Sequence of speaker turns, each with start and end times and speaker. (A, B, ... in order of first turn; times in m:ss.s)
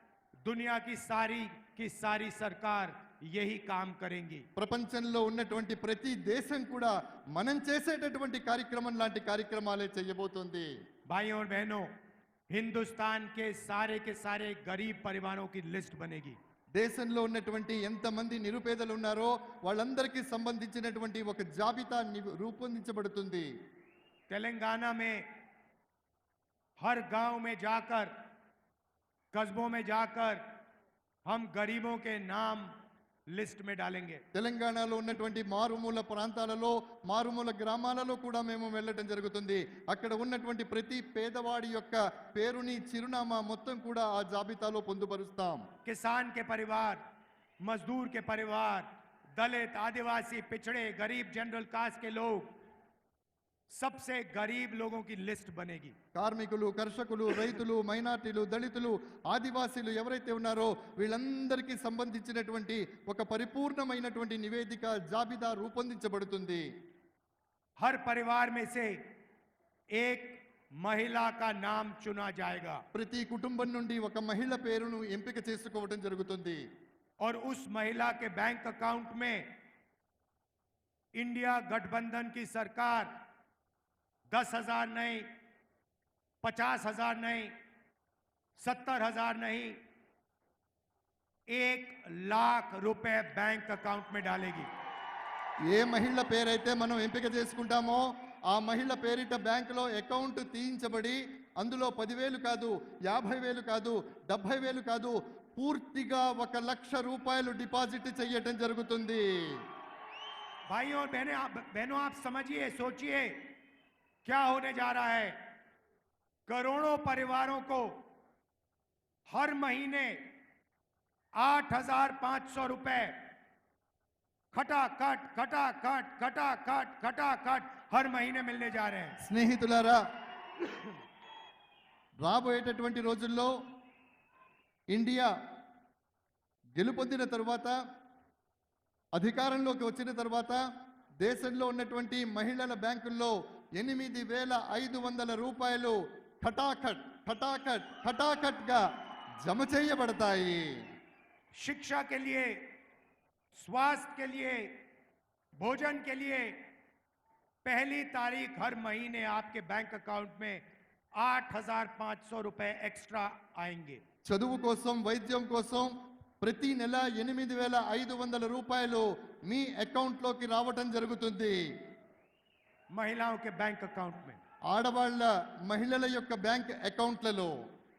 0:00.5-0:04.4 A
0:04.6-0:10.7 B
0:11.1-0:11.9 A
0:12.5-0:16.4 A
0:16.8-0:23.5 B
0:24.3-0:25.2 A
0:26.8-0:28.1 A
0:29.3-0:30.4 A
0:31.3-0:32.7 A
0:33.3-0:34.2 A
0:34.3-0:45.6 B
0:45.8-0:47.0 A
0:47.6-0:52.5 A
0:53.7-0:56.0 A
0:56.2-1:06.6 B
1:07.8-1:08.9 A
1:10.0-1:12.8 A
1:12.9-1:16.6 B
1:17.2-1:19.5 A
1:21.2-1:23.1 A
1:24.3-1:25.2 A
1:26.4-1:27.5 A
1:28.6-1:29.8 A
1:31.5-1:34.7 A
1:35.7-1:49.2 B
1:50.7-1:53.5 A
1:54.2-1:55.4 A
1:56.5-1:57.9 A
1:59.3-2:00.2 A
2:01.4-2:03.2 A
2:04.5-2:09.2 A
2:09.2-2:10.0 B
2:12.2-2:13.5 B
2:14.9-2:15.3 B
2:16.8-2:17.8 B
2:19.2-2:20.6 B
2:21.2-2:28.8 B
2:29.4-2:30.8 B
2:31.5-2:32.6 A
2:33.5-2:34.7 A
2:35.6-2:36.6 A
2:37.6-2:40.6 A
2:41.2-2:44.0 A
2:44.3-2:51.6 B
2:52.9-2:54.4 A
2:54.7-2:57.5 B